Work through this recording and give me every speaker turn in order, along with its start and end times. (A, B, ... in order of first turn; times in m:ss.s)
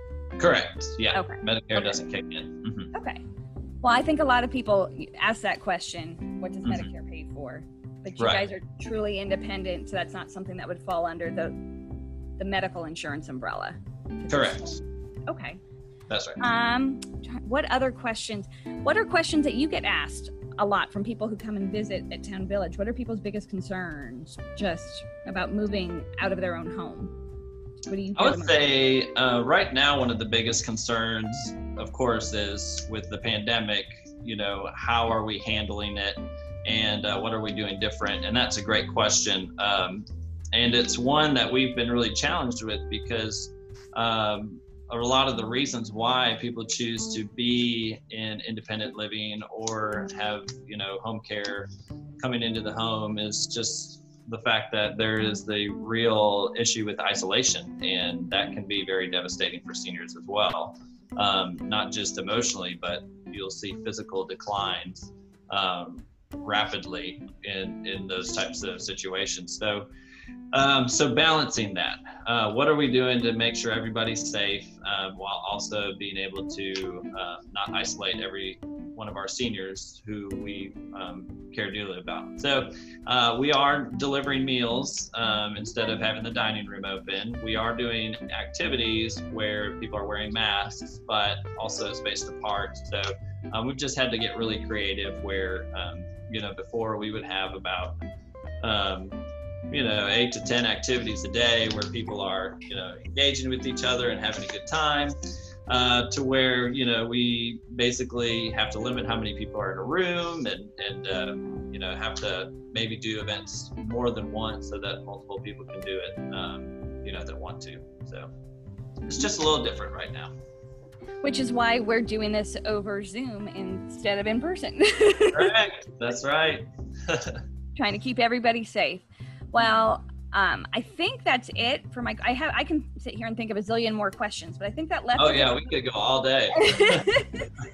0:00.4-0:02.9 A
0:01.1-0:02.0 B
0:02.9-0:03.2 B
0:03.8-0:11.6 B
0:08.2-0:08.5 A
0:12.4-0:14.6 B
0:14.3-0:14.8 A
0:15.3-0:15.6 B
0:16.1-0:16.4 A
0:16.4-0:27.1 B
0:27.8-0:28.6 B
0:28.2-0:51.7 A
0:52.2-1:09.8 A
1:10.5-1:38.0 A
1:38.6-1:39.2 A
1:39.7-1:45.1 A
1:45.7-1:58.3 A
1:59.0-2:00.3 A
2:01.2-2:05.5 B
2:05.3-2:07.4 A
2:07.8-2:15.7 B
2:15.2-2:17.2 A
2:16.5-2:17.5 B